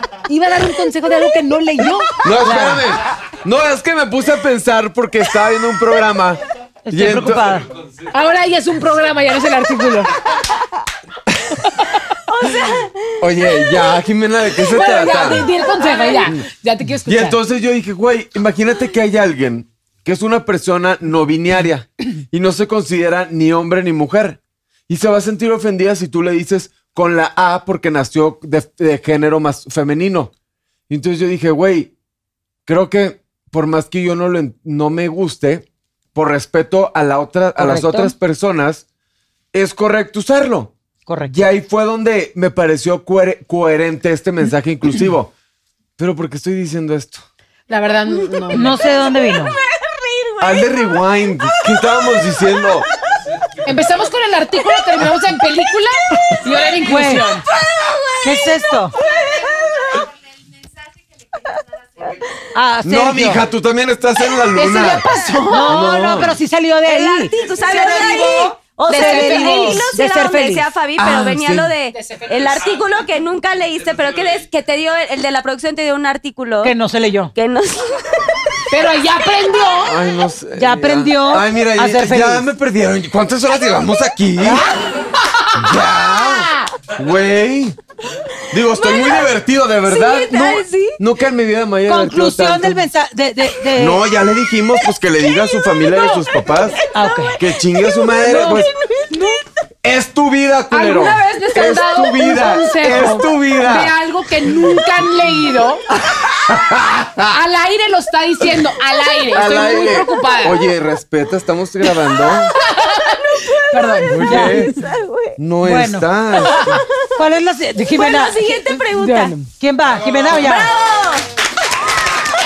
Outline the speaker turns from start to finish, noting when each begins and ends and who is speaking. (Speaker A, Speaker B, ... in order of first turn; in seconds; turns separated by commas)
Speaker A: 0.3-2.2, Speaker B: 2.2-7.6, Speaker C: 2.4-2.9, Speaker C: 6.9-7.7, Speaker A: 8.1-10.2, Speaker D: 12.3-13.1, Speaker B: 12.7-15.5, Speaker A: 14.7-17.4, Speaker D: 15.8-16.3, Speaker B: 17.1-30.3, Speaker B: 30.9-31.9, Speaker B: 32.7-38.8, Speaker C: 37.6-38.1, Speaker B: 39.5-40.7, Speaker C: 41.1-41.4, Speaker B: 41.3-45.3, Speaker B: 46.0-47.2, Speaker A: 47.7-48.7, Speaker D: 48.1-51.7, Speaker C: 48.5-49.6, Speaker B: 50.4-52.9, Speaker A: 53.6-57.5, Speaker D: 54.6-55.1, Speaker C: 56.8-57.3, Speaker D: 57.5-60.1, Speaker C: 58.2-58.9, Speaker C: 62.5-63.4, Speaker B: 62.9-65.0, Speaker A: 64.5-65.8, Speaker C: 65.5-70.7, Speaker B: 65.7-66.4, Speaker D: 66.9-76.8, Speaker A: 67.7-69.8, Speaker B: 71.0-71.7, Speaker A: 71.9-72.8, Speaker C: 76.6-77.3, Speaker D: 77.3-78.6, Speaker A: 78.7-80.0, Speaker B: 79.8-84.7, Speaker C: 80.6-82.5, Speaker A: 85.1-86.7, Speaker B: 85.5-87.8, Speaker B: 88.5-92.8, Speaker D: 88.7-89.3, Speaker D: 89.9-91.0, Speaker C: 91.9-94.0, Speaker B: 93.8-96.8, Speaker A: 95.9-96.2, Speaker D: 96.8-99.4, Speaker C: 96.9-97.4, Speaker B: 97.4-98.7, Speaker B: 99.8-104.0, Speaker A: 100.7-105.8, Speaker B: 105.9-107.3, Speaker A: 107.3-110.7, Speaker B: 109.3-112.5, Speaker A: 112.2-114.6, Speaker D: 113.3-115.4, Speaker B: 114.0-114.8, Speaker C: 114.3-114.7, Speaker B: 115.4-116.8, Speaker C: 115.6-116.1, Speaker D: 116.4-117.1, Speaker A: 116.4-116.8, Speaker C: 117.1-118.6, Speaker D: 117.9-119.4, Speaker A: 118.7-119.5, Speaker C: 119.5-120.7, Speaker D: 120.1-121.3